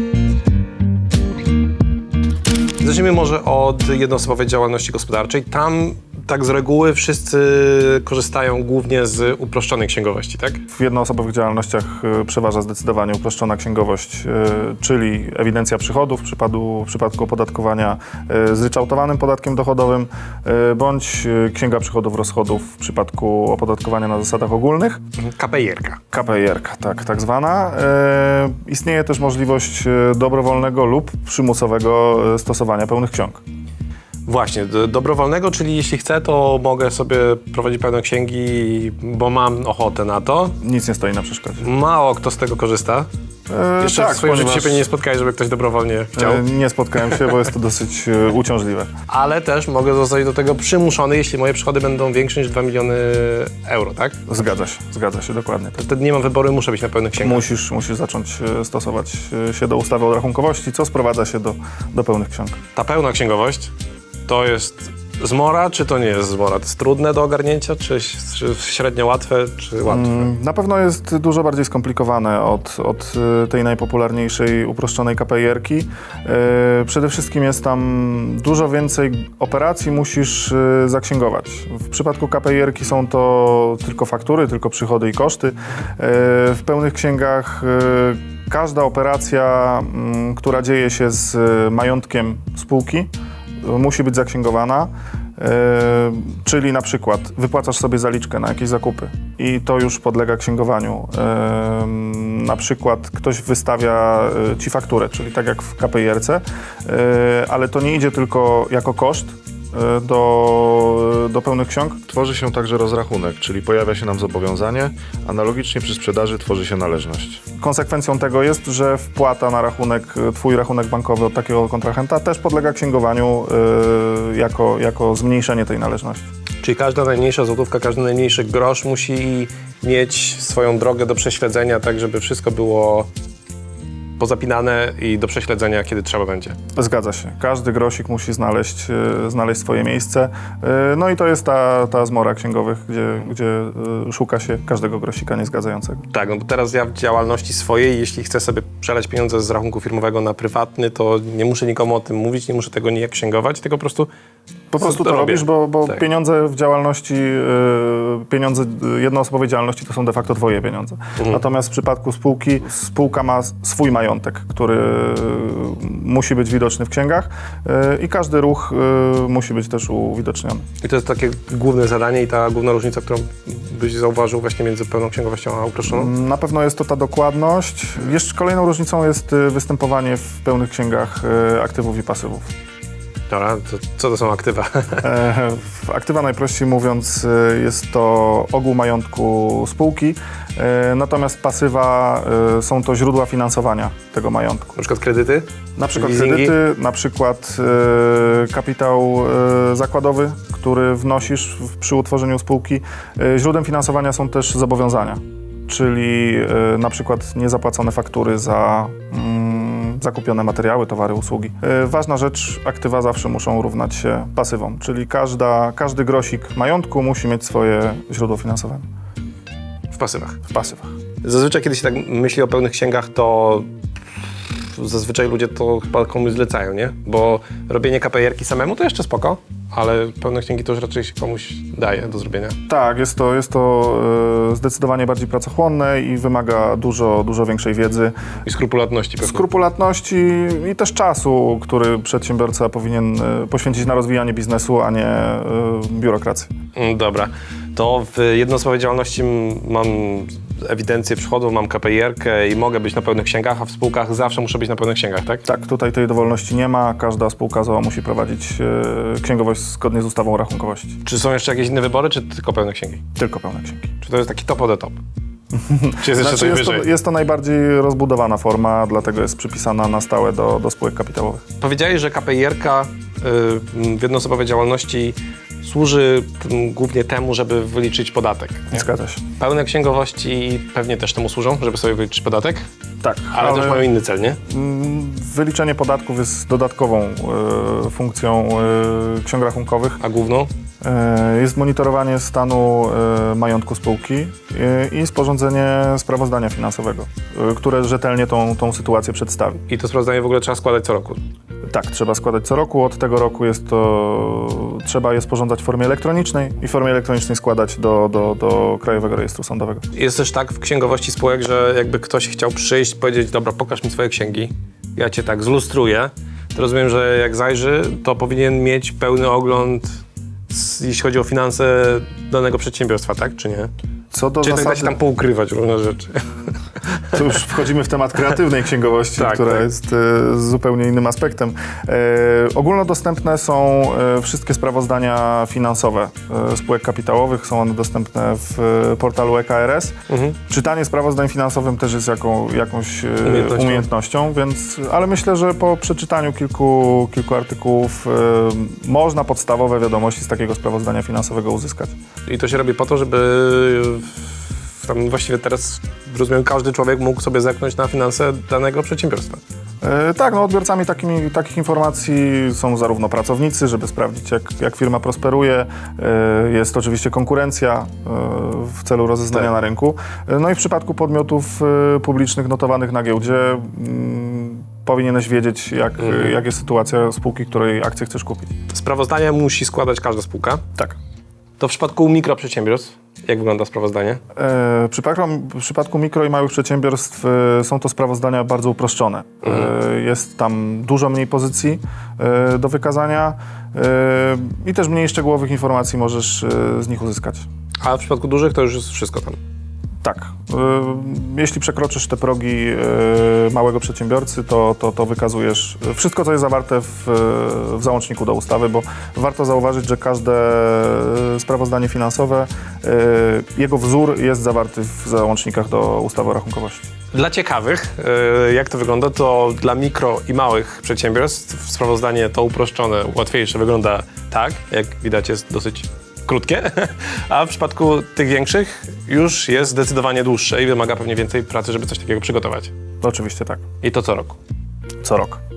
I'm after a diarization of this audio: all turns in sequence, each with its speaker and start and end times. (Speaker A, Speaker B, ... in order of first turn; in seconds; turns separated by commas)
Speaker A: 2.8-10.6, Speaker B: 10.7-25.0, Speaker A: 25.2-26.0, Speaker B: 26.1-33.4, Speaker A: 34.3-40.5, Speaker B: 40.6-41.6, Speaker A: 41.6-43.1, Speaker B: 43.5-44.8, Speaker A: 43.8-46.4, Speaker B: 46.1-48.9, Speaker A: 49.1-54.2, Speaker B: 54.3-55.8, Speaker A: 55.8-57.4, Speaker B: 57.2-62.6, Speaker A: 62.7-63.7, Speaker A: 64.3-70.3, Speaker B: 69.8-93.1, Speaker B: 93.6-112.0, Speaker C: 112.1-117.4, Speaker B: 117.6-126.2, Speaker A: 126.6-133.1, Speaker A: 134.2-136.6, Speaker B: 136.8-146.1, Speaker A: 146.1-154.1, Speaker B: 154.7-170.6, Speaker A: 154.8-155.9, Speaker A: 170.8-176.1, Speaker B: 175.9-182.5, Speaker A: 183.3-185.1, Speaker B: 185.0-194.7, Speaker A: 194.8-196.5, Speaker B: 195.8-218.9, Speaker A: 219.9-220.4, Speaker B: 220.5-220.9, Speaker A: 221.2-223.7, Speaker A: 224.7-232.6, Speaker B: 232.7-238.1, Speaker A: 238.4-239.4, Speaker B: 239.2-246.5, Speaker A: 246.7-255.4, Speaker B: 255.4-261.0, Speaker A: 261.0-263.0, Speaker B: 263.2-263.9, Speaker A: 264.0-265.0, Speaker B: 265.5-271.4, Speaker A: 266.0-266.9, Speaker A: 271.6-278.8, Speaker B: 278.7-279.2, Speaker A: 279.4-282.6, Speaker B: 283.0-283.9, Speaker A: 283.3-284.4, Speaker B: 284.4-290.0, Speaker A: 290.0-290.5, Speaker B: 290.8-299.6, Speaker A: 299.7-301.2, Speaker B: 301.7-309.9, Speaker A: 309.9-323.7, Speaker B: 324.1-324.9, Speaker A: 324.4-327.1, Speaker B: 327.1-339.9, Speaker A: 329.2-329.6, Speaker A: 340.1-340.3, Speaker B: 340.5-351.9, Speaker A: 343.2-343.9, Speaker A: 352.2-359.4, Speaker B: 359.8-378.5, Speaker A: 378.7-380.6, Speaker A: 381.6-384.2, Speaker B: 384.3-397.4, Speaker A: 389.4-389.7, Speaker A: 397.8-399.4, Speaker B: 400.0-416.8, Speaker A: 417.1-432.7, Speaker B: 433.0-433.6, Speaker A: 433.8-434.4, Speaker B: 435.0-435.4